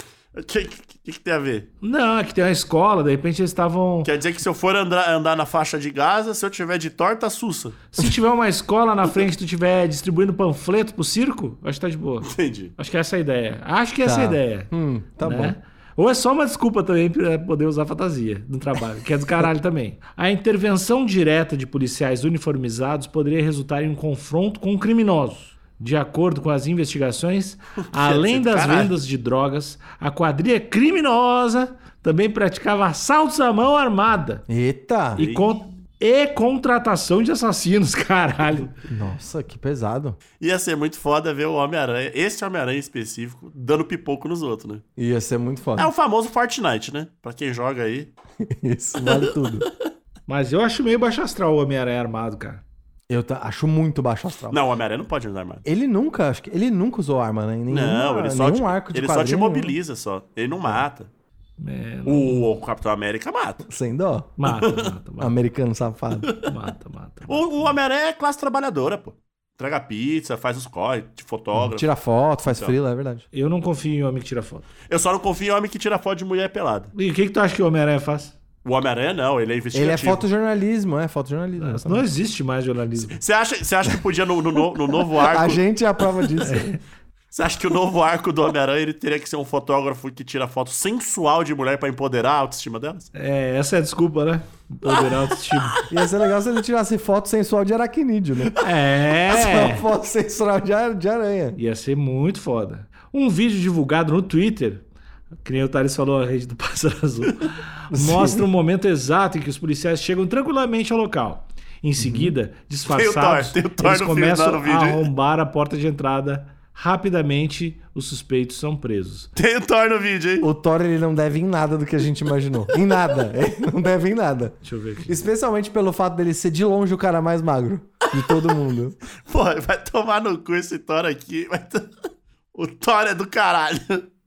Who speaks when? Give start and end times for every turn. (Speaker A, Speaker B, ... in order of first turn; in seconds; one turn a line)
Speaker A: 0.3-1.7
Speaker B: 1.8-4.1
Speaker A: 4.0-7.8
Speaker B: 7.9-14.7
Speaker A: 12.2-12.7
Speaker C: 14.0-15.5
Speaker B: 15.2-34.4
Speaker A: 27.9-28.9
Speaker C: 34.5-35.2
Speaker B: 35.1-38.7
Speaker A: 35.2-35.5
Speaker C: 38.9-40.2
Speaker A: 40.4-44.8
Speaker C: 45.0-45.9
Speaker A: 45.8-48.1
Speaker C: 48.6-49.6
Speaker A: 49.0-49.6
Speaker B: 50.3-52.6
Speaker C: 53.1-54.6
Speaker A: 54.5-55.6
Speaker C: 55.6-59.8
Speaker A: 57.7-61.1
Speaker B: 61.6-62.5
Speaker A: 62.0-63.6
Speaker C: 63.7-64.3
Speaker B: 64.4-65.3
Speaker A: 64.5-64.9
Speaker C: 65.2-66.3
Speaker A: 66.2-66.5
Speaker B: 66.5-67.8
Speaker A: 67.3-71.8
Speaker C: 71.5-73.2
Speaker A: 72.4-72.7
Speaker B: 73.3-74.7
Speaker A: 74.9-76.9
Speaker B: 76.9-78.3
Speaker A: 78.6-80.3
Speaker C: 79.7-82.1
Speaker B: 81.6-83.2
Speaker A: 83.0-85.6
Speaker C: 85.2-86.8
Speaker B: 86.5-86.8
Speaker A: 87.3-93.1
Speaker B: 93.1-95.8
Speaker A: 94.9-95.8
Speaker C: 95.9-98.5
Speaker B: 98.6-99.8
Speaker C: 99.3-101.6
Speaker B: 101.5-104.8
Speaker B: 105.4-119.3
Speaker C: 107.9-108.5
Speaker C: 112.0-112.3
Speaker A: 112.8-115.1
Speaker A: 119.3-120.5
Speaker C: 120.4-129.0
Speaker B: 124.6-125.2
Speaker A: 128.2-128.5
Speaker A: 129.2-131.9
Speaker A: 132.5-134.1